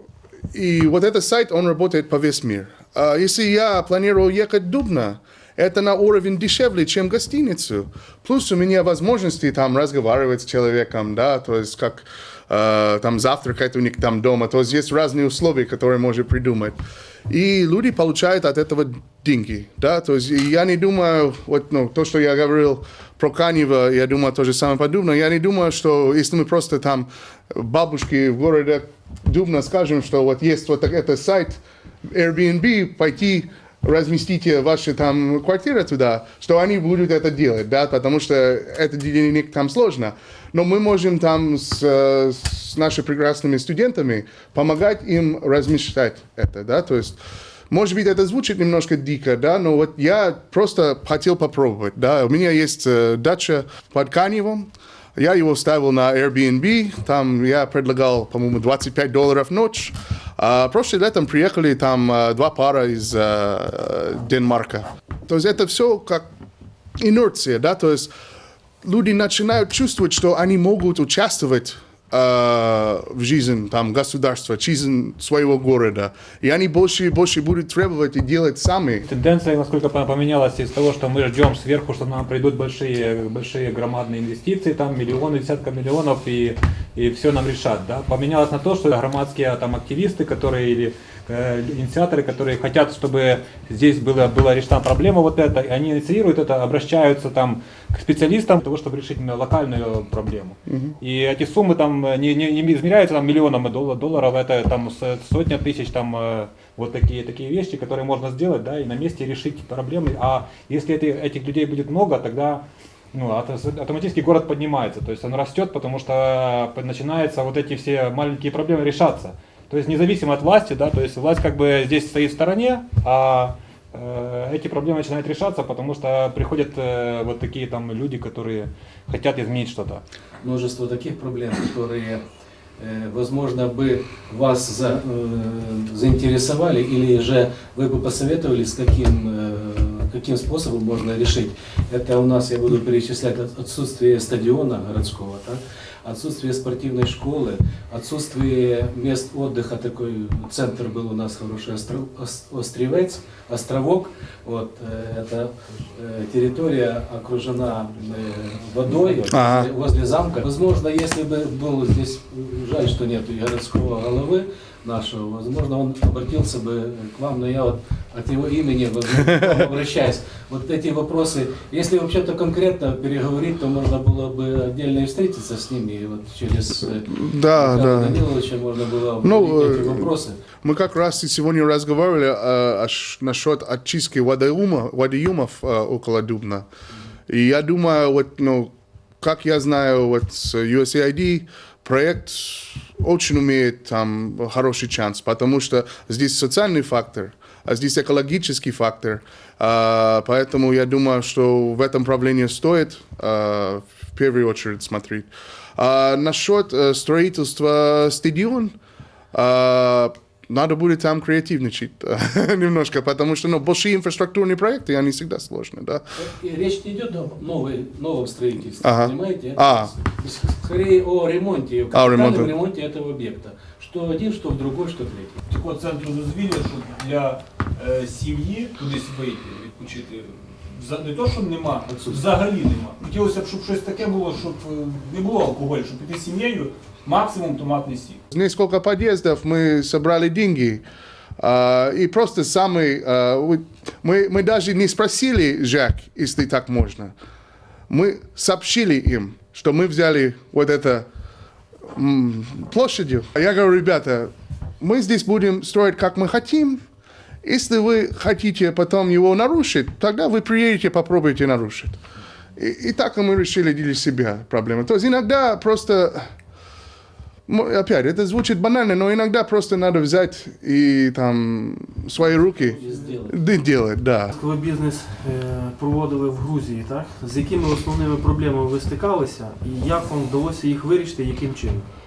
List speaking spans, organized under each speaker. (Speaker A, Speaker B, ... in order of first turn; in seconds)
Speaker A: 0.5-16.8, 17.3-66.3, 67.0-68.1, 68.8-79.1, 100.7-101.0, 159.3-159.7, 177.1-178.3, 179.2-180.1, 180.6-186.7, 187.3-208.8, 209.3-216.0, 218.8-219.9, 221.9-222.5, 238.3-240.8, 241.4-247.1, 247.9-251.1, 251.9-256.8, 257.4-262.0, 262.6-266.3, 267.5-274.3
Speaker B: 79.1-130.0
Speaker C: 130.4-132.2, 132.8-180.4, 216.2-225.4, 272.2-273.4
Speaker D: 225.5-238.2
Speaker E: 274.3-281.9